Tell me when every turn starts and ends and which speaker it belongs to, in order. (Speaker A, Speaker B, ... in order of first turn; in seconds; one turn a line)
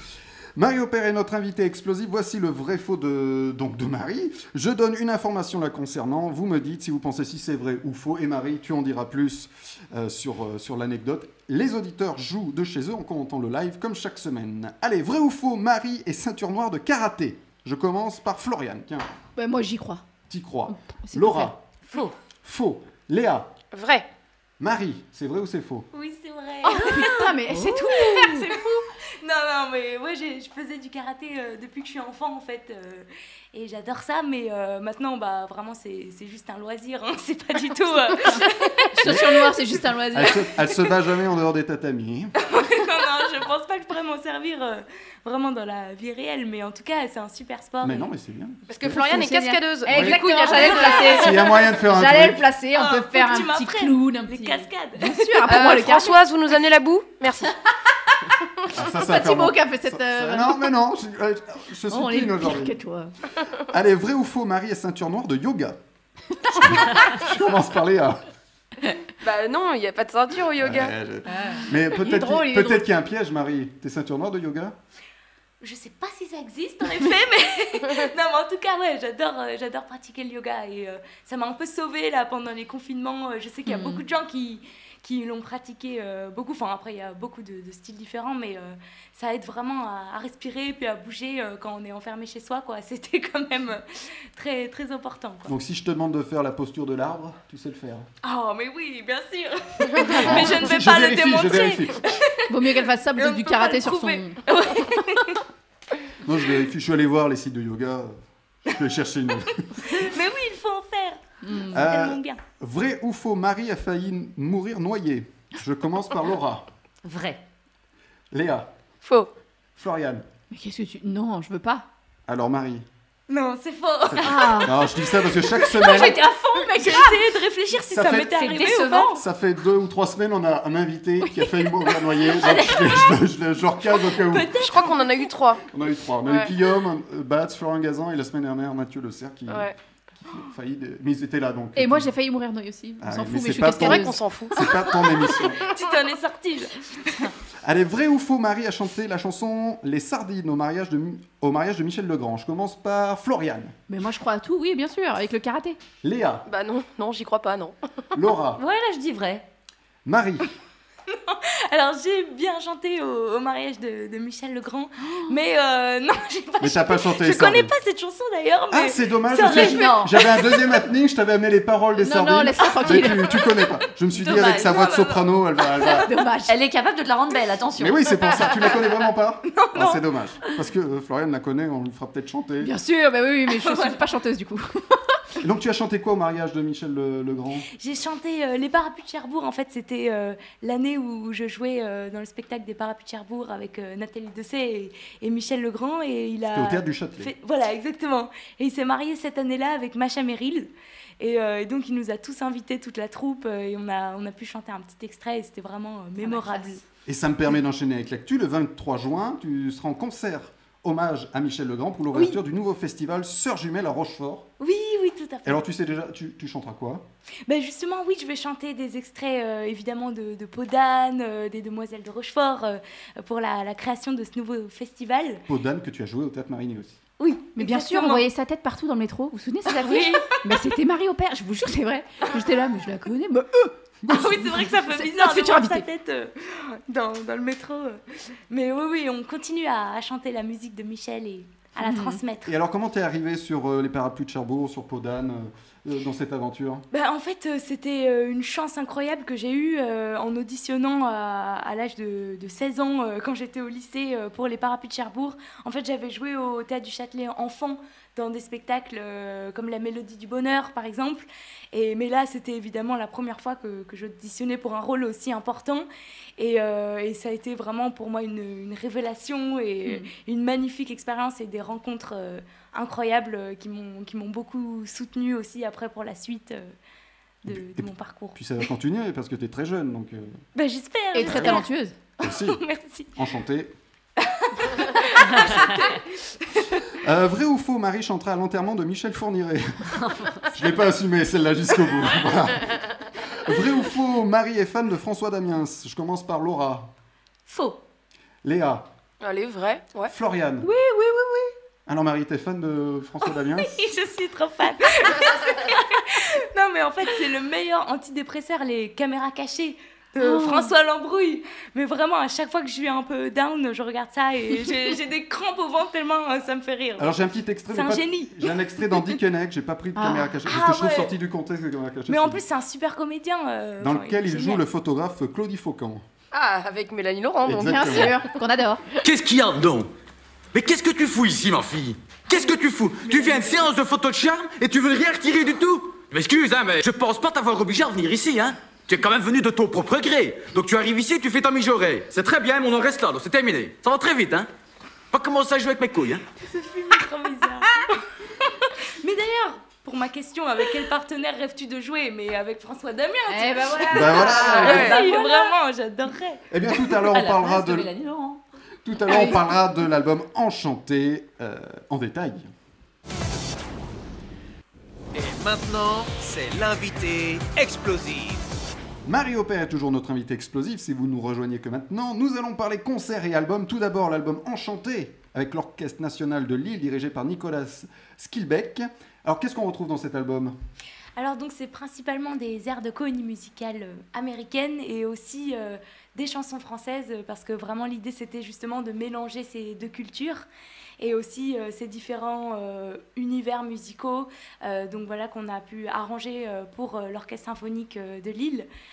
Speaker A: 0.6-19.1
Speaker B: 19.4-20.0
Speaker A: 20.3-21.6
Speaker B: 20.7-21.5
Speaker A: 22.4-23.5
Speaker C: 23.7-24.1
Speaker A: 24.6-25.9
Speaker D: 25.9-39.3
Speaker B: 26.6-28.5
Speaker B: 38.9-40.5
Speaker A: 40.1-42.3
Speaker D: 42.4-48.1
Speaker A: 47.8-48.6
Speaker C: 48.7-51.3
Speaker B: 48.8-56.4
Speaker D: 50.4-51.2
Speaker A: 51.2-52.5
Speaker D: 52.7-55.5
Speaker C: 55.5-57.5
Speaker B: 57.4-60.7
Speaker A: 58.7-62.8
Speaker B: 61.9-63.1
Speaker A: 63.5-65.8
Speaker B: 66.5-67.1
Speaker A: 66.5-68.2
Speaker C: 69.2-70.9
Speaker A: 70.6-74.7
Speaker B: 71.3-72.9
Speaker D: 75.6-95.5
Speaker B: 83.7-84.0
Speaker A: 95.5-98.1
Speaker D: 98.2-102.5
Speaker A: 100.2-102.1
Speaker B: 102.5-104.4
Speaker D: 103.2-105.4
Speaker A: 106.2-109.6
Speaker D: 109.7-112.4
Speaker B: 111.4-111.9
Speaker A: 111.7-116.7
Speaker E: 117.1-117.4
Speaker A: 118.3-118.7
Speaker C: 119.0-119.3
Speaker A: 119.8-120.2
Speaker B: 120.5-121.9
Speaker A: 122.3-122.9
Speaker D: 123.3-124.7
Speaker A: 124.1-126.2
Speaker B: 124.2-124.8
Speaker E: 126.2-127.0
Speaker D: 126.5-129.2
Speaker A: 127.9-128.3
Speaker E: 128.4-129.1
Speaker A: 129.0-134.6
Speaker B: 131.2-132.3
Speaker D: 134.3-135.0
Speaker C: 134.5-135.6
Speaker A: 135.6-142.1
Speaker C: 136.2-136.5
Speaker C: 139.5-139.7
Speaker B: 141.8-144.7
Speaker A: 143.0-145.6
Speaker C: 143.7-144.5
Speaker D: 145.2-147.3
Speaker A: 147.6-153.7
Speaker B: 153.9-155.8
Speaker A: 156.0-156.5
Speaker C: 156.5-157.8
Speaker A: 158.1-158.6
Speaker F: 158.9-159.4
Speaker A: 160.1-160.5
Speaker D: 161.1-170.8
Speaker B: 165.1-165.3
Speaker A: 166.6-167.7
Speaker A: 168.7-176.2
Speaker B: 172.0-173.5
Speaker D: 174.1-175.8
Speaker B: 175.8-176.6
Speaker E: 176.5-177.9
Speaker A: 177.8-182.7
Speaker D: 179.4-180.0
Speaker B: 182.6-185.2
Speaker D: 183.5-184.0
Speaker A: 185.4-187.7
Speaker D: 187.7-206.8
Speaker A: 196.5-197.3
Speaker B: 206.2-206.8
Speaker A: 207.1-214.5
Speaker D: 212.1-212.4
Speaker D: 214.6-215.7
Speaker A: 215.4-217.1
Speaker D: 217.5-225.4
Speaker A: 225.5-227.0
Speaker D: 227.2-228.3
Speaker B: 227.3-235.8
Speaker D: 229.7-230.4
Speaker D: 234.1-242.5
Speaker A: 234.2-234.5
Speaker B: 241.8-242.2
Speaker A: 242.5-246.8
Speaker D: 246.9-276.7
Speaker D: 277.4-278.4
Speaker A: 277.5-280.4
Speaker D: 280.6-281.7
Speaker B: 281.1-282.0
Speaker A: 281.3-281.6
Speaker A: 282.2-282.6
Speaker D: 282.2-283.1
Speaker A: 283.1-283.7
Speaker D: 284.3-286.9
Speaker A: 286.9-296.9
Speaker F: 290.1-290.4
Speaker D: 297.5-297.8
Speaker A: 298.4-298.9
Speaker C: 299.2-300.1
Speaker A: 300.1-300.7
Speaker B: 300.6-301.5
Speaker A: 301.9-303.9
Speaker D: 303.4-319.2
Speaker B: 310.2-310.7
Speaker A: 317.0-322.4
Speaker B: 320.0-320.3
Speaker D: 320.4-321.1
Speaker D: 322.1-324.6
Speaker A: 323.8-326.0
Speaker C: 326.3-328.2
Speaker A: 327.4-328.2
Speaker B: 327.6-329.0
Speaker F: 329.0-329.9
Speaker F: 330.5-344.5
Speaker D: 332.3-333.7
Speaker F: 345.1-346.2
Speaker D: 346.4-347.8
Speaker D: 348.8-356.5
Speaker B: 353.3-355.5
Speaker A: 353.9-354.9
Speaker C: 354.3-355.0
Speaker A: 356.5-357.9
Speaker F: 357.0-358.4
Speaker A: 358.9-362.5
Speaker B: 359.1-359.5
Speaker G: 365.1-368.4
Speaker A: 369.1-380.6
Speaker D: 381.2-390.5
Speaker D: 391.0-398.7